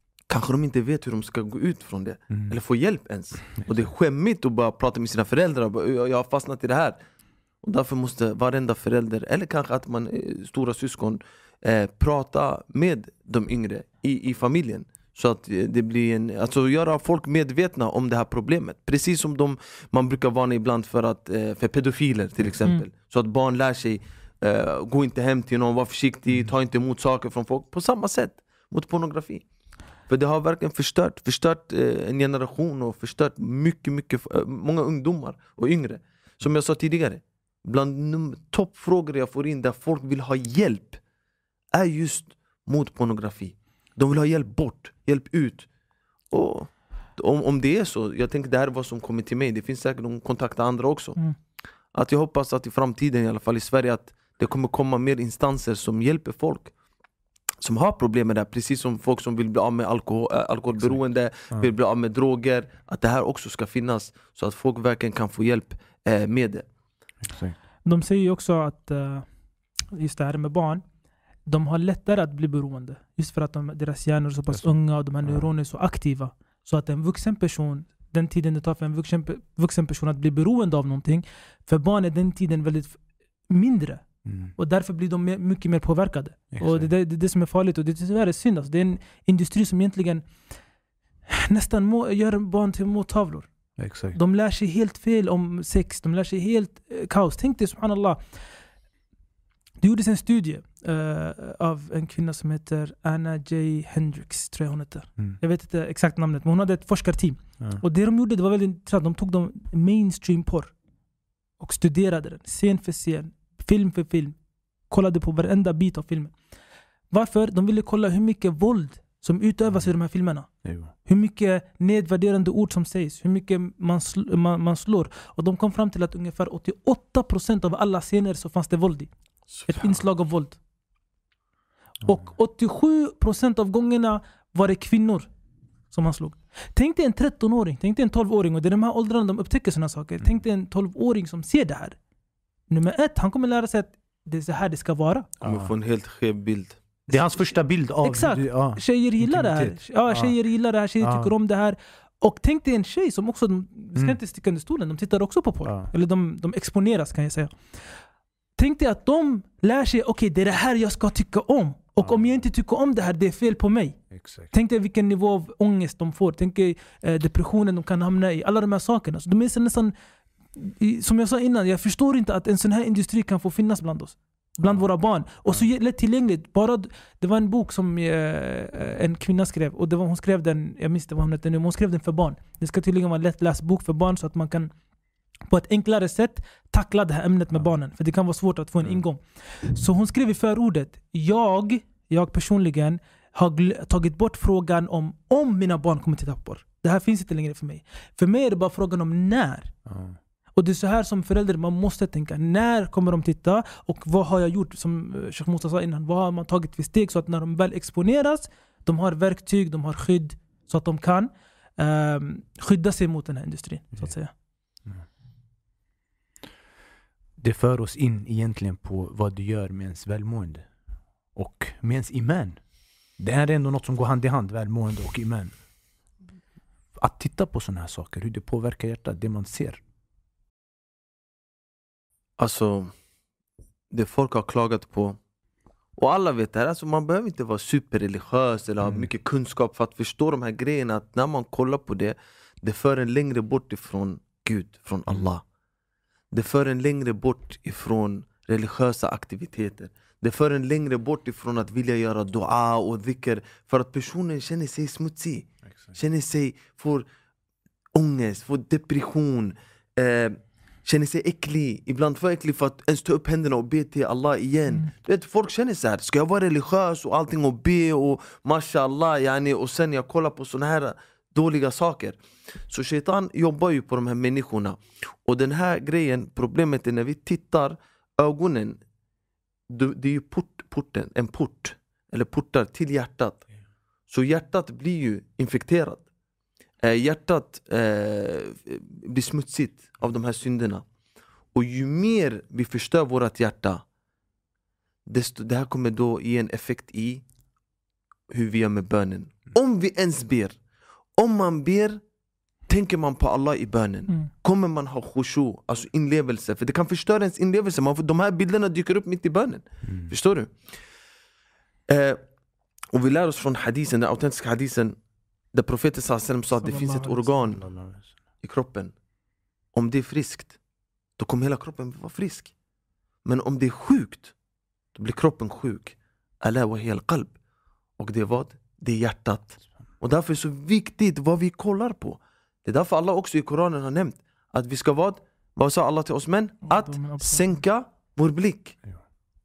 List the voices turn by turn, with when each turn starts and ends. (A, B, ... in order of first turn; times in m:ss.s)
0:00.3-0:07.0 A
0:03.5-0:03.9 B
0:07.6-0:29.4 A
0:30.1-0:41.0 A
0:41.7-0:45.7 A
0:46.3-0:51.2 A
0:51.9-0:56.7 A
0:57.6-1:06.7 A
1:07.2-1:07.6 B
1:07.8-1:09.3 C
1:09.9-1:10.8 C
1:11.5-1:23.0 C
1:14.5-1:15.5 B
1:23.5-1:24.0 C
1:24.2-1:24.5 B
1:24.6-1:30.2 C
1:26.5-1:26.9 B
1:31.3-1:33.5 C
1:33.8-1:34.2 B
1:34.1-1:38.2 C
1:39.8-1:50.7 C
1:51.6-1:54.4 C
1:54.9-1:56.3 C
1:57.1-2:09.1 C
2:00.6-2:00.9 B
2:09.5-2:10.0 A
2:09.7-2:10.6 C
2:12.0-2:15.3 C
2:15.9-2:22.0 C
2:22.7-2:25.3 C
2:25.4-2:26.8 A
2:25.4-2:25.7 B
2:27.1-2:30.3 B
2:28.0-2:37.8 C
2:31.0-2:31.3 B
2:35.6-2:35.9 B
2:38.6-2:49.9 C
2:42.0-2:42.3 B
2:44.1-2:44.5 B
2:50.6-3:04.7 C
2:54.6-2:54.9 B
3:05.5-3:19.7 C
3:19.9-3:20.2 B
3:20.6-3:34.3 C
3:37.4-3:40.7 B
3:41.4-3:42.6 B
3:43.2-3:45.5 B
3:47.0-3:49.8 B
3:52.4-3:52.9 A
3:53.9-3:55.2 A
3:56.0-4:05.4 A
3:58.8-3:59.1 B
4:06.3-4:17.1 A
4:15.7-4:16.0 B
4:17.9-4:32.2 A
4:32.7-4:38.8 A
4:39.7-4:43.4 A
4:44.1-4:46.0 A
4:46.8-4:50.8 A
4:51.5-4:53.8 A
4:55.1-4:57.2 A
4:58.3-5:00.6 A
5:01.2-5:02.0 A
5:02.7-5:10.5 A
5:09.8-5:10.1 B
5:11.9-5:12.2 A
5:12.9-5:15.0 A
5:15.5-5:17.6 A
5:16.6-5:17.3 C
5:17.6-5:18.1 B
5:18.4-5:18.9 A
5:19.7-5:20.6 A
5:21.2-5:22.5 A
5:23.2-5:24.3 A
5:24.9-5:27.4 A
5:28.0-5:38.8 A
5:36.6-5:37.6 C